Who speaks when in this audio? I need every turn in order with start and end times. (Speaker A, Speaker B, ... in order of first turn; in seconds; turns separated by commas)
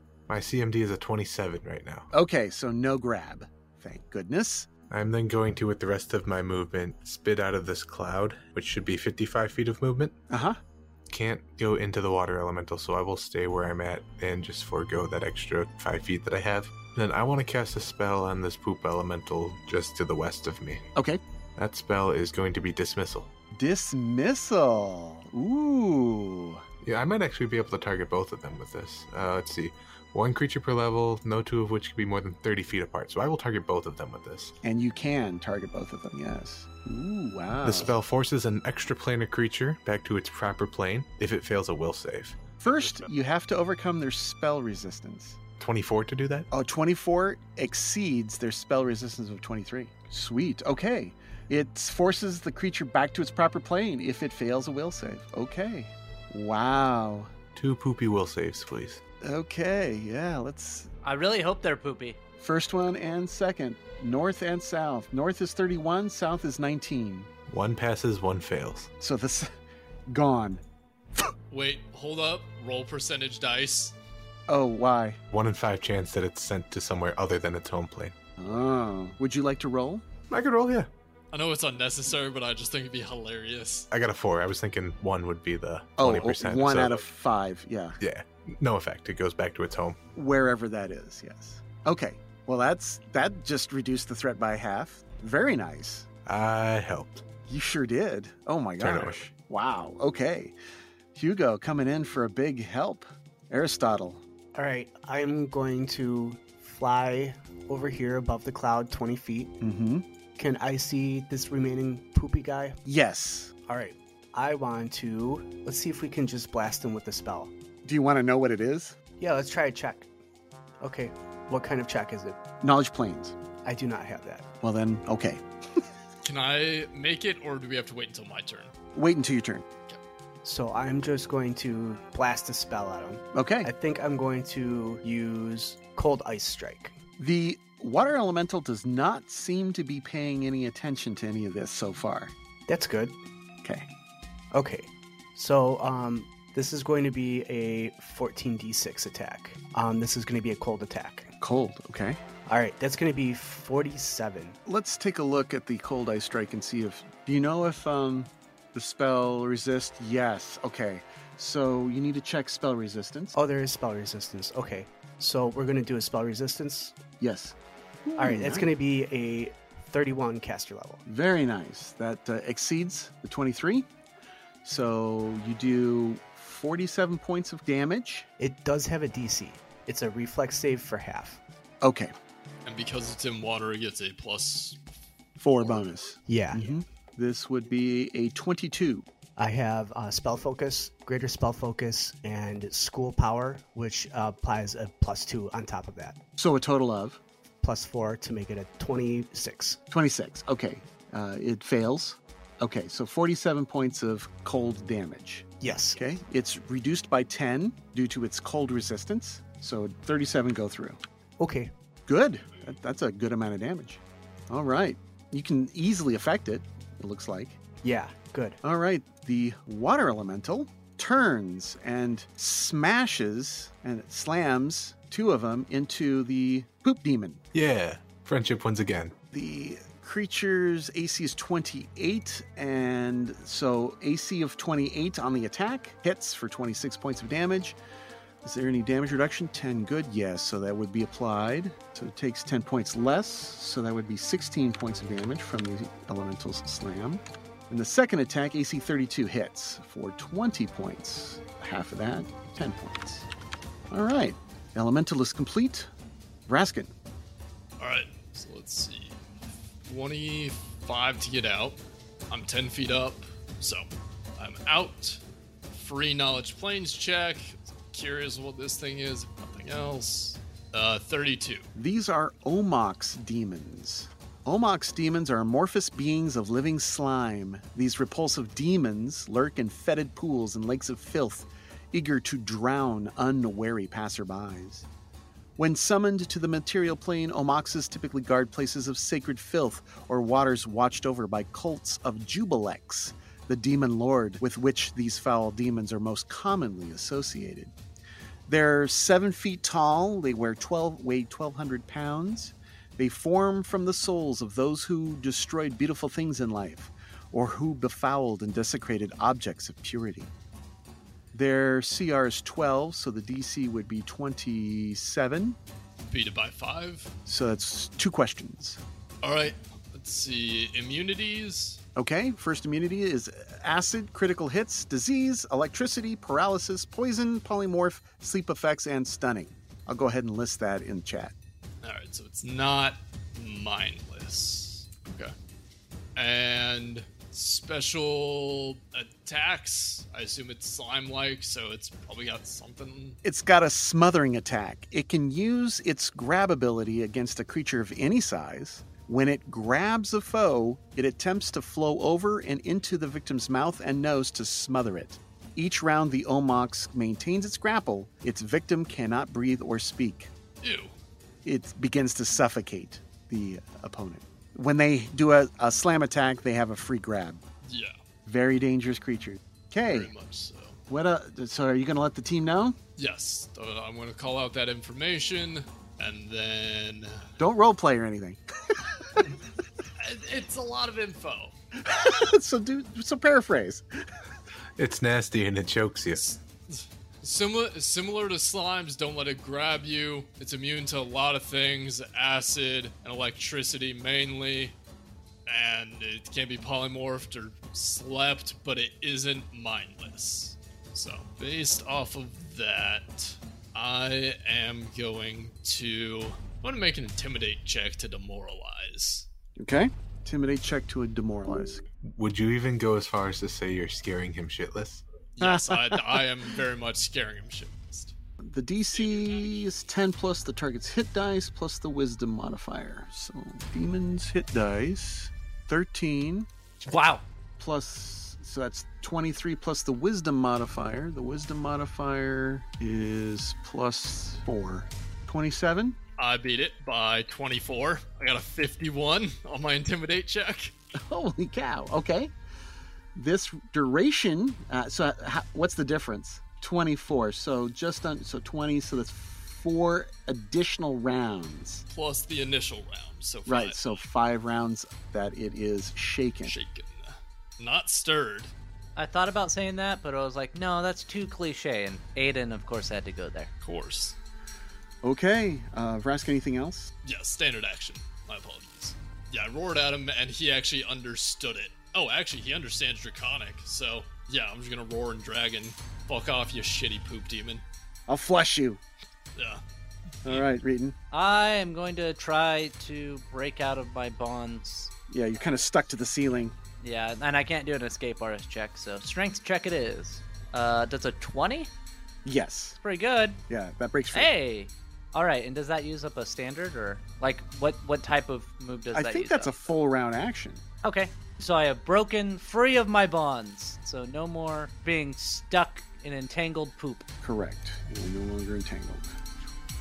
Speaker A: 0.3-2.1, Speaker B: 2.1-4.7, Speaker A: 4.9-10.2, Speaker B: 10.3-10.6, Speaker A: 11.1-20.9, Speaker B: 20.9-21.2, Speaker A: 21.6-23.3, Speaker B: 23.5-26.6, Speaker A: 26.8-34.5, Speaker B: 34.6-38.0, Speaker A: 37.6-42.4, Speaker B: 42.6-45.4, Speaker A: 45.6-46.5, Speaker B: 46.5-57.3, Speaker A: 57.5-59.0, Speaker B: 59.2-60.9, Speaker C: 61.0-62.2, Speaker B: 62.4-67.3, Speaker A: 67.5-68.9, Speaker B: 69.0-69.5, Speaker B: 70.1-70.6, Speaker D: 71.5-74.0, Speaker B: 74.5-75.2, Speaker A: 75.3-78.2, Speaker B: 78.4-80.1, Speaker A: 80.3-80.9, Speaker D: 81.3-83.9, Speaker A: 83.9-87.0, Speaker B: 86.0-88.0, Speaker A: 88.0-90.0, Speaker B: 90.2-96.1, Speaker A: 96.3-97.2, Speaker B: 97.5-100.6, Speaker A: 98.8-99.2, Speaker B: 101.2-104.2, Speaker E: 104.5-109.6, Speaker B: 109.6-110.1, Speaker E: 110.4-112.8, Speaker B: 112.9-113.5, Speaker E: 113.7-117.5, Speaker B: 117.8-119.0, Speaker E: 119.2-120.1, Speaker E: 120.8-122.4, Speaker B: 122.6-123.4, Speaker E: 123.7-124.5, Speaker B: 124.6-125.4, Speaker D: 126.2-128.7, Speaker B: 128.9-129.7, Speaker E: 130.4-137.0, Speaker B: 133.3-133.7, Speaker B: 137.2-142.3, Speaker E: 142.7-143.2, Speaker E: 144.5-151.3, Speaker B: 151.4-152.2, Speaker E: 152.5-154.6, Speaker B: 154.7-163.3, Speaker E: 163.3-167.0, Speaker B: 167.2-168.7, Speaker E: 168.2-171.0, Speaker B: 171.1-173.9, Speaker B: 174.6-178.3, Speaker E: 178.4-181.4, Speaker B: 181.8-182.1, Speaker D: 182.7-184.8, Speaker B: 185.4-189.1, Speaker E: 186.3-186.6, Speaker E: 189.4-196.2, Speaker B: 196.4-197.2, Speaker E: 197.6-199.8, Speaker B: 199.9-211.0, Speaker E: 205.6-206.0, Speaker E: 211.4-211.7, Speaker B: 212.1-217.6, Speaker E: 217.8-218.6, Speaker B: 218.6-227.4, Speaker A: 227.5-229.1, Speaker B: 229.3-237.8, Speaker B: 238.4-253.3, Speaker B: 253.9-255.9, Speaker B: 256.5-256.9, Speaker D: 257.8-259.2, Speaker D: 259.9-261.8, Speaker D: 262.3-271.7, Speaker B: 271.8-284.9, Speaker B: 285.6-297.7, Speaker B: 298.5-310.3, Speaker B: 311.3-315.6, Speaker D: 316.1-317.1, Speaker B: 317.3-318.8, Speaker D: 319.2-321.8, Speaker B: 322.0-331.3, Speaker D: 331.8-335.3, Speaker D: 336.2-343.2, Speaker B: 343.2-360.3, Speaker D: 360.6-360.9, Speaker B: 361.4-367.4, Speaker D: 367.6-368.0, Speaker B: 368.3-370.1, Speaker D: 369.8-370.8, Speaker B: 370.9-372.8, Speaker D: 373.0-377.3, Speaker B: 377.4-379.3, Speaker D: 380.0-381.5, Speaker B: 381.8-383.9, Speaker A: 384.8-386.2, Speaker D: 386.1-394.8, Speaker D: 395.5-409.3, Speaker B: 409.6-411.8, Speaker A: 412.1-415.0, Speaker D: 415.4-418.1, Speaker B: 415.4-416.3, Speaker B: 418.4-426.5, Speaker D: 419.1-419.4, Speaker C: 426.8-427.2, Speaker B: 427.6-436.0, Speaker D: 436.2-440.7, Speaker B: 440.9-442.3, Speaker B: 443.1-451.8, Speaker D: 451.9-454.0, Speaker B: 453.5-456.5, Speaker D: 456.4-458.5, Speaker C: 459.0-463.5, Speaker D: 463.6-464.2, Speaker B: 465.0-466.9, Speaker D: 467.0-477.6, Speaker B: 478.1-478.8, Speaker D: 479.4-479.6, Speaker B: 480.2-481.0, Speaker C: 481.1-484.9, Speaker B: 485.1-486.6, Speaker C: 486.8-491.7, Speaker B: 492.2-492.8, Speaker C: 492.8-493.4, Speaker B: 493.5-494.3, Speaker C: 494.1-499.6, Speaker B: 498.9-500.6, Speaker C: 500.8-507.1, Speaker B: 507.2-509.2